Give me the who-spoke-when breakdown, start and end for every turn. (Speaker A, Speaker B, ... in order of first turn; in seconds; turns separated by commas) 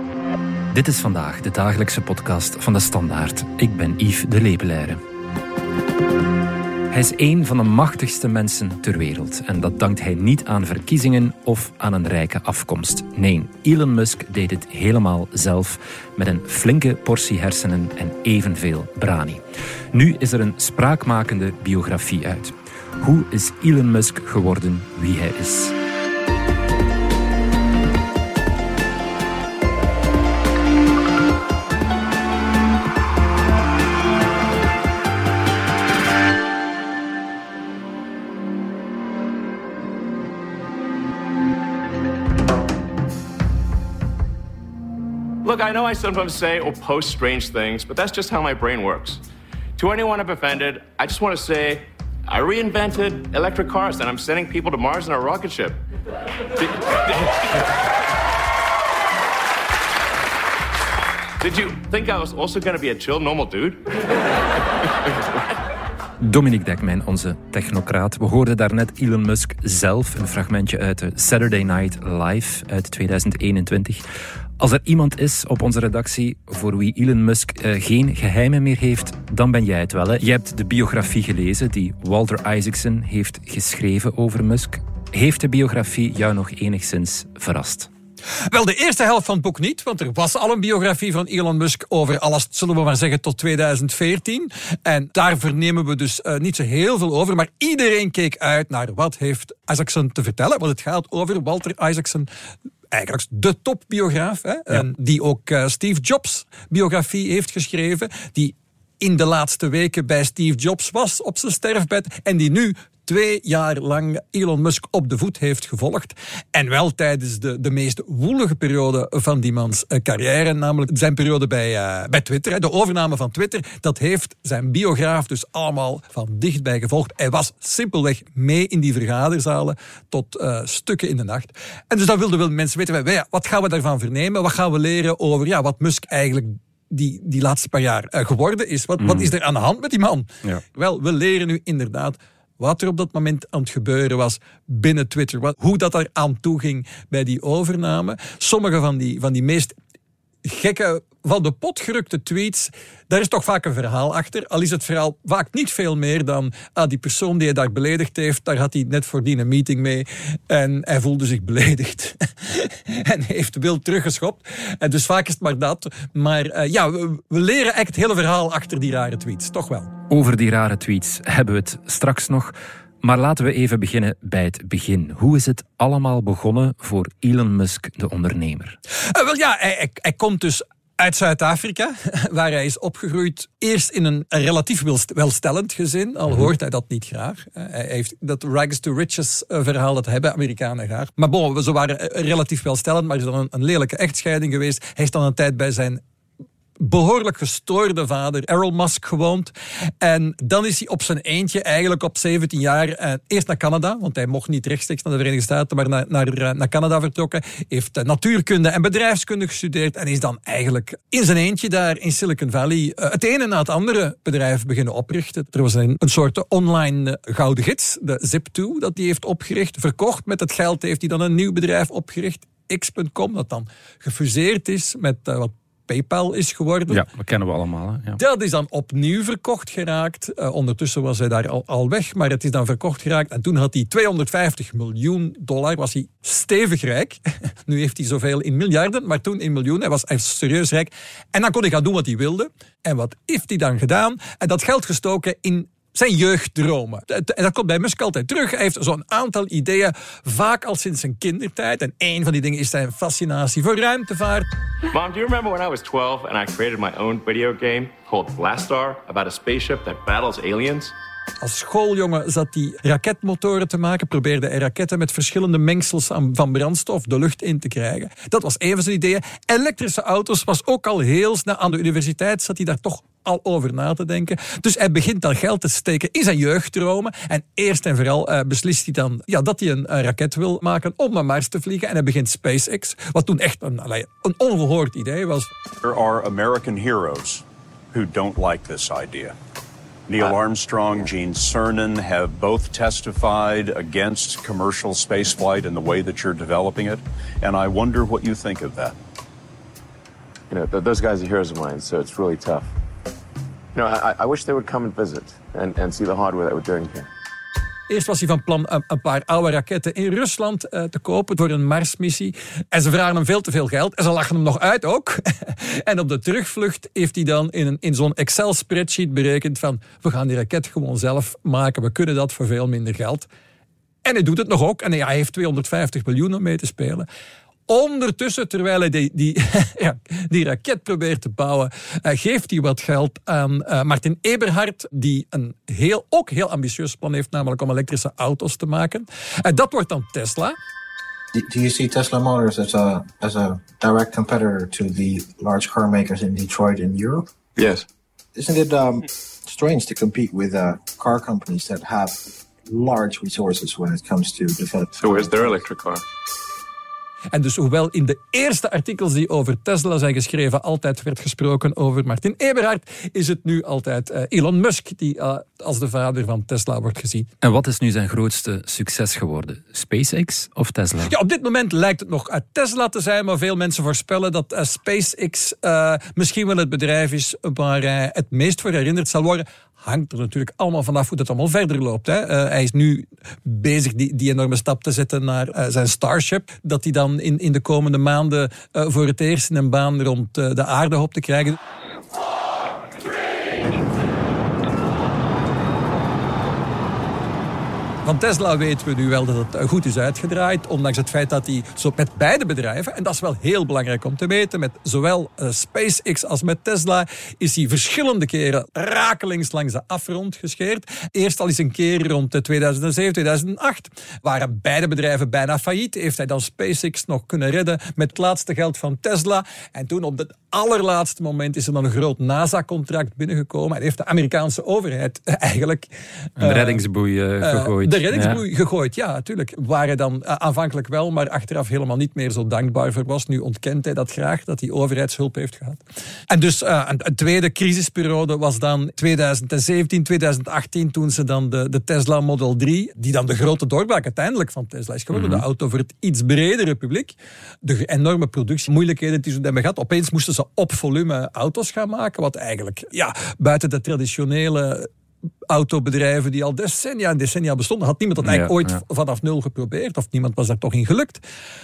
Speaker A: 0.7-5.0, Speaker A: 6.9-25.7, Speaker B: 45.4-49.2, Speaker B: 49.8-55.8, Speaker B: 56.6-57.4, Speaker B: 61.4-63.8, Speaker A: 66.2-74.0, Speaker A: 74.6-87.9, Speaker C: 88.5-102.3, Speaker C: 102.9-149.7, Speaker A: 139.0-139.3, Speaker C: 150.4-169.9, Speaker A: 170.1-178.8, Speaker C: 179.1-196.0, Speaker C: 196.8-227.1, Speaker A: 226.9-228.2, Speaker C: 228.2-254.5, Speaker B: 254.9-260.9, Speaker C: 261.4-285.5, Speaker D: 285.8-289.4, Speaker D: 290.1-298.9, Speaker B: 300.5-302.7, Speaker B: 303.7-307.1, Speaker C: 307.9-323.3, Speaker C: 324.0-327.1, Speaker C: 327.7-340.6, Speaker E: 341.3-347.2, Speaker B: 347.6-347.9, Speaker E: 348.3-355.6, Speaker B: 355.0-356.0, Speaker C: 357.3-367.3, Speaker A: 367.4-371.1, Speaker C: 371.0-391.6, Speaker C: 398.0-426.8, Speaker A: 426.4-428.4, Speaker C: 427.4-454.9, Speaker A: 445.1-445.4, Speaker C: 455.5-461.2, Speaker A: 458.2-458.8